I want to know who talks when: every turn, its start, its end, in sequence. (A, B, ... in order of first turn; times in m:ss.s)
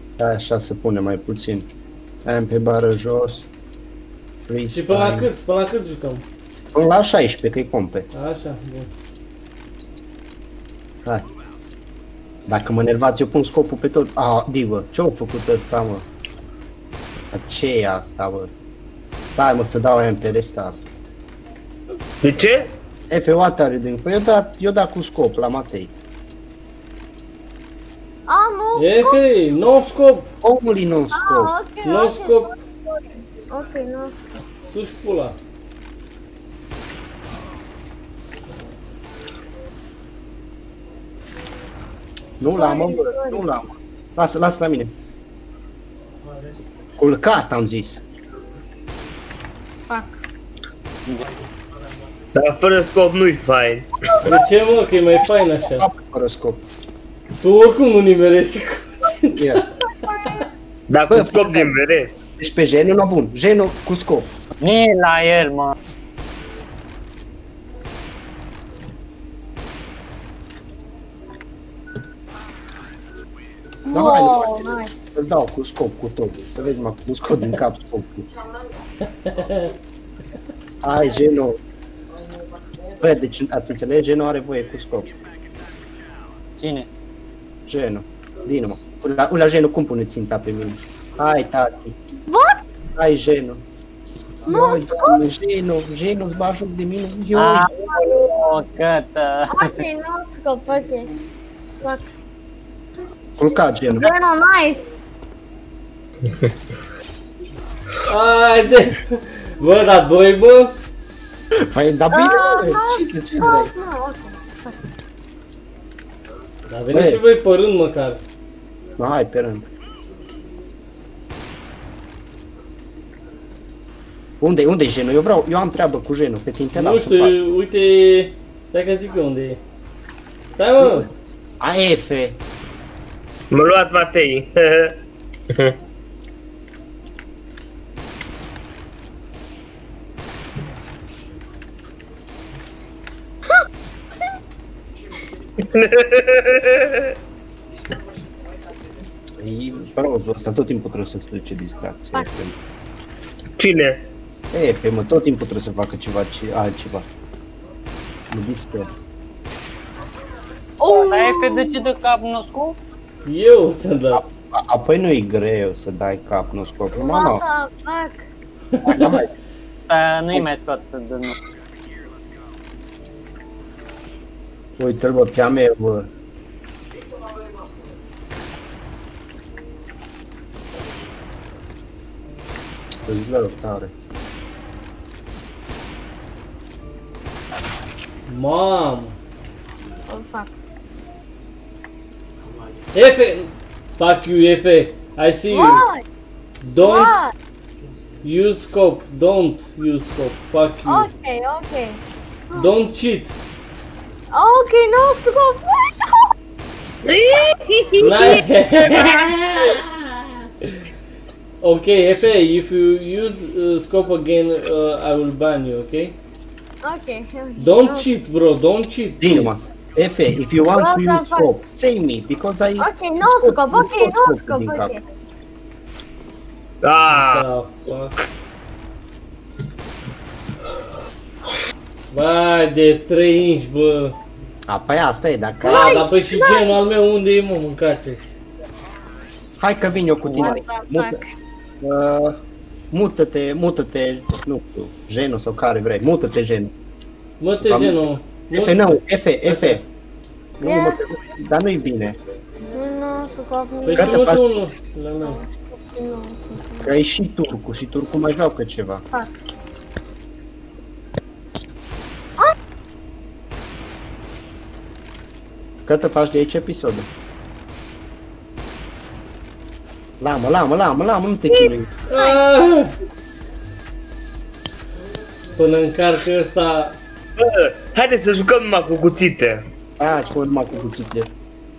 0:00.2-0:01.7 A
0:02.2-0:03.4 A
0:04.5-0:05.3 A
0:04.7-0:06.2 B
0:06.7-0:08.1 A
0:08.1-0:08.9 B
0:12.5-0:16.0 A
0:17.3-0:18.5 A
0:19.4-0:20.8 A
0:22.2-0:22.7 C
0:23.1-0:25.9 A
0:28.3-0:29.2 D
0:28.8-0:30.3 B
0:30.4-0:31.5 A
0:31.1-0:34.1 D
0:31.8-0:32.5 B
0:34.7-0:35.4 B
0:42.4-0:44.9 A
0:42.5-0:43.4 D
0:47.0-0:48.0 A
0:49.9-0:50.1 D
0:52.3-0:53.9 C
0:54.2-0:55.9 B
0:55.6-0:56.6 A
0:57.4-0:59.6 B
0:59.3-0:59.6 A
1:00.0-1:00.4 D
1:00.9-1:02.2 C
1:01.1-1:01.8 A
1:02.4-1:04.3 A
1:04.6-1:05.7 E
1:13.8-1:15.0 D
1:13.9-1:18.3 A
1:19.3-1:19.7 B
1:20.8-1:21.6 A
1:23.0-1:25.2 A
1:26.6-1:26.9 E
1:27.7-1:32.0 A
1:32.3-1:32.6 D
1:32.9-1:33.6 A
1:34.4-1:37.7 A
1:34.5-1:35.2 D
1:37.3-1:39.8 E
1:39.5-1:41.1 D
1:43.4-1:44.1 A
1:43.9-1:44.9 D
1:48.0-1:50.7 B
1:51.5-1:53.7 A
1:52.1-1:54.8 D
1:56.7-1:58.2 B
1:56.9-1:57.2 A
1:59.0-1:59.7 A
2:04.4-2:07.3 A
2:06.7-2:09.6 B
2:10.6-2:11.1 B
2:10.8-2:11.1 A
2:11.6-2:12.4 A
2:13.5-2:15.0 C
2:25.6-2:27.1 C
2:29.4-2:32.6 A
2:33.6-2:34.0 C
2:34.5-2:37.0 A
2:38.3-2:38.9 A
2:40.8-2:41.8 D
2:41.0-2:42.8 E
2:43.2-2:44.2 B
2:44.1-2:47.4 A
2:46.9-2:48.3 D
2:48.8-2:49.3 A
2:48.9-2:49.2 B
2:49.0-2:49.2 E
2:49.9-2:51.4 E
2:54.8-2:56.1 A
3:03.0-3:03.9 A
3:08.3-3:09.1 B
3:10.1-3:10.5 D
3:12.9-3:15.8 B
3:15.5-3:16.0 D
3:16.6-3:17.1 B
3:16.8-3:17.3 D
3:18.2-3:21.1 B
3:20.8-3:22.0 D
3:22.5-3:23.3 B
3:24.3-3:26.2 D
3:27.0-3:29.1 C
3:28.0-3:30.8 B
3:31.6-3:36.2 B
3:36.8-3:38.1 D
3:37.6-3:39.6 B
3:39.2-3:44.9 A
3:40.7-3:41.5 D
3:42.8-3:45.0 D
3:46.8-3:47.4 C
3:47.1-3:48.2 B
3:52.1-3:54.2 B
3:54.7-3:56.0 A
3:55.6-3:56.7 D
3:55.6-3:58.3 B
3:59.6-4:01.2 A
4:00.3-4:01.3 D
4:01.8-4:06.7 A
4:07.4-4:09.8 B
4:07.6-4:09.8 A
4:10.6-4:12.2 A
4:10.6-4:11.0 D
4:12.7-4:14.2 D
4:13.8-4:15.4 B
4:14.0-4:14.4 A
4:15.2-4:16.9 D
4:16.8-4:19.0 A
4:25.8-4:27.1 A
4:30.2-4:31.9 A
4:31.5-4:32.4 D
4:32.1-4:32.9 B
4:35.6-4:37.0 B
4:37.4-4:39.6 C
4:40.0-4:41.3 A